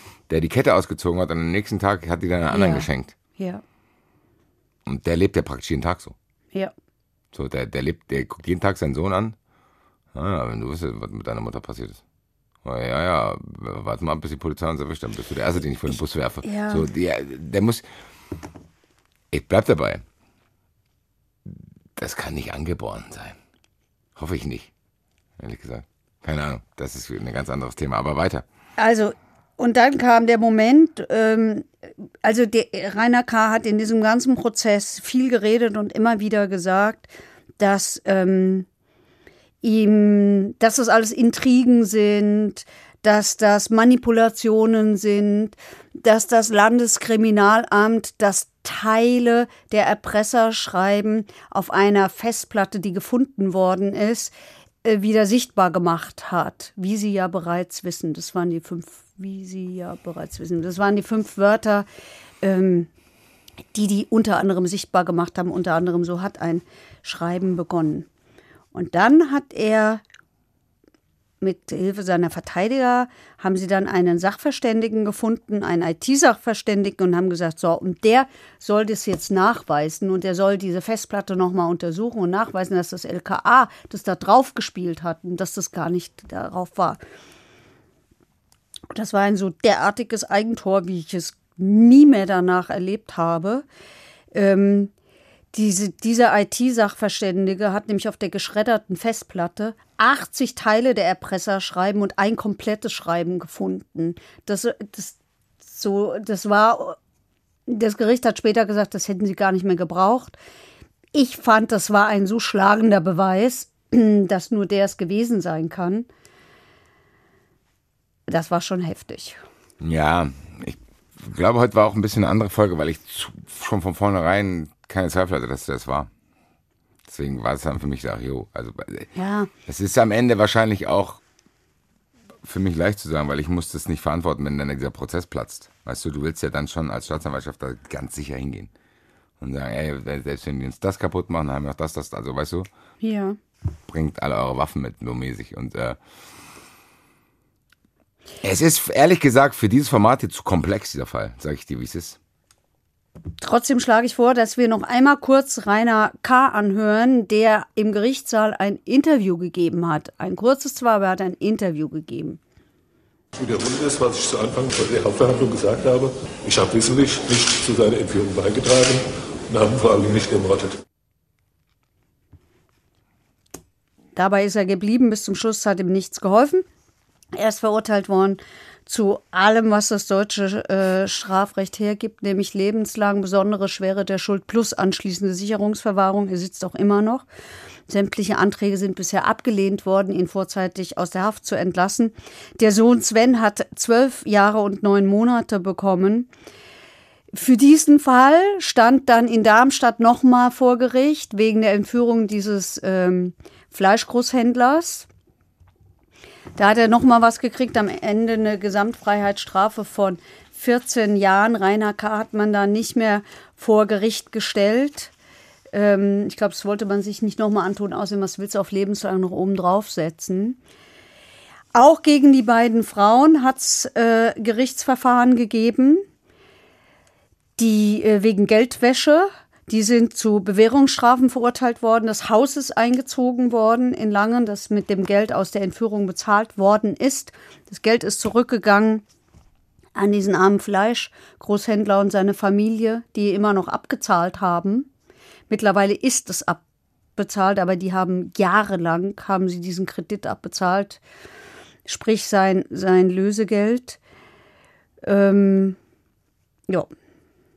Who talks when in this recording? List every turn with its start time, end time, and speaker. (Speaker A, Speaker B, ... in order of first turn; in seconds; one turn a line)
Speaker A: 0.3-3.1
Speaker B: 2.5-2.9
Speaker B: 3.4-3.6
Speaker A: 4.8-6.1
Speaker A: 7.3-9.3
Speaker A: 10.1-12.0
Speaker A: 12.6-17.9
Speaker B: 16.4-16.9
Speaker A: 19.3-20.0
Speaker A: 21.4-23.4
Speaker A: 24.1-24.7
Speaker A: 25.4-28.4
Speaker B: 28.8-31.7
Speaker B: 32.2-38.7
Speaker B: 39.6-54.3
Speaker B: 54.8-61.9
Speaker B: 62.4-62.9
Speaker B: 63.7-68.1
Speaker B: 68.7-70.0
Speaker B: 71.4-87.0
Speaker B: 88.9-93.6
Speaker B: 94.3-94.9
Speaker B: 95.5-105.2
Speaker B: 105.7-107.0
Speaker B: 107.7-110.3
Speaker B: 111.1-116.1
Speaker B: 118.3-119.4
Speaker A: 119.8-126.1
Speaker A: 127.1-129.1
Speaker B: 129.1-129.5
Speaker A: 129.7-131.2
Speaker A: 132.4-138.7
Speaker A: 139.4-142.7
Speaker B: 143.0-143.4
Speaker A: 143.9-146.0
Speaker A: 148.4-152.2
Speaker B: 153.4-162.4
Speaker C: 163.4-170.8
Speaker B: 174.2-176.7
Speaker B: 177.3-187.2
Speaker B: 187.9-196.3
Speaker B: 197.3-205.1
Speaker B: 206.6-215.1
Speaker B: 215.7-220.6
Speaker B: 221.7-226.0
Speaker B: 227.6-239.0
Speaker B: 239.9-244.9
Speaker B: 245.5-246.6
Speaker B: 247.2-251.0
Speaker B: 251.8-254.0
Speaker B: 255.0-255.8